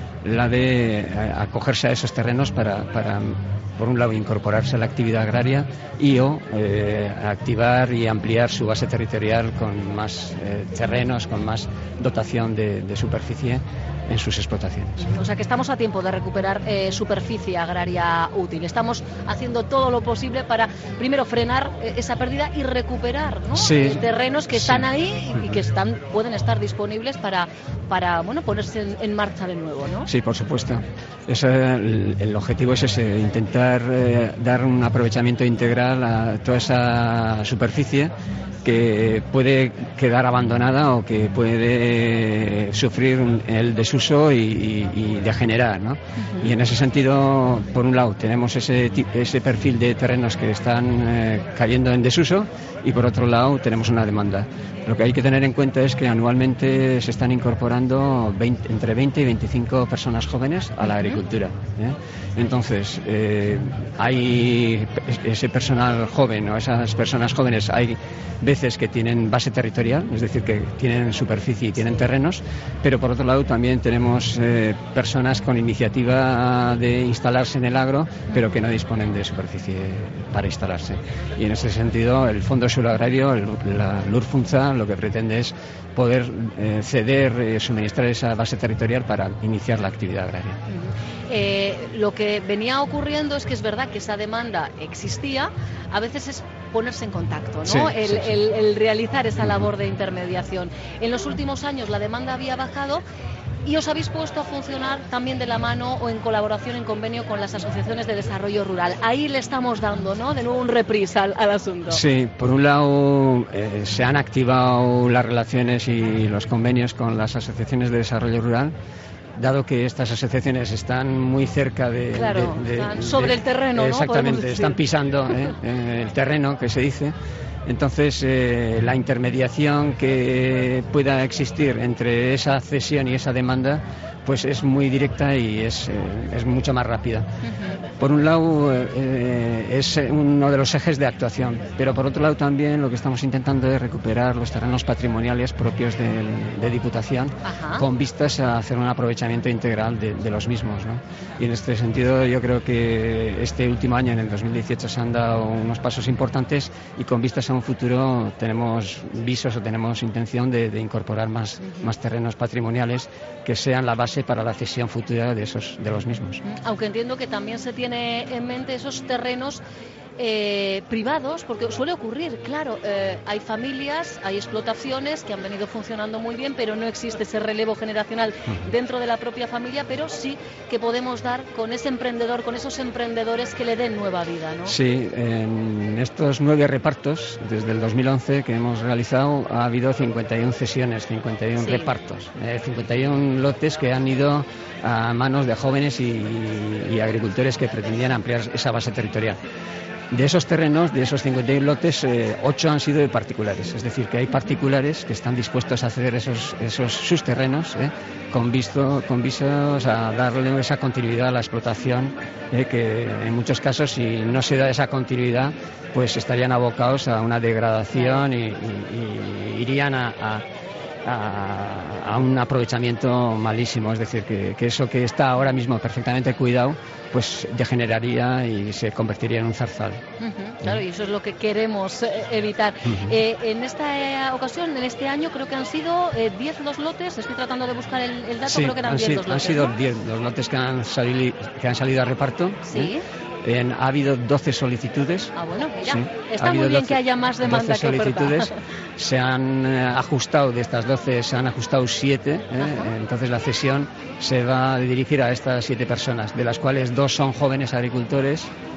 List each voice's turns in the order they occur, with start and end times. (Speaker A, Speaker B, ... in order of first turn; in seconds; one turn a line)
Speaker A: 0.2-15.1
Speaker B: 15.1-30.1
Speaker A: 23.5-24.9
Speaker A: 30.1-38.1
Speaker A: 38.6-90.6
Speaker B: 60.8-61.2
Speaker B: 90.7-103.0
Speaker A: 97.6-98.3
Speaker B: 103.6-112.0
Speaker A: 111.9-118.7
Speaker A: 119.3-127.1
Speaker B: 122.1-124.8
Speaker A: 127.7-137.3
Speaker B: 137.4-137.8
Speaker A: 138.0-166.4
Speaker B: 147.4-147.8
Speaker B: 166.4-169.6
Speaker B: 170.2-184.7
Speaker A: 184.7-199.4
Speaker B: 191.6-191.9
Speaker A: 200.1-220.4
Speaker A: 221.0-230.0
Speaker B: 230.2-239.7
Speaker A: 238.4-242.9
Speaker B: 242.7-243.0
Speaker A: 243.4-258.5
Speaker B: 245.4-248.5
Speaker B: 252.6-252.9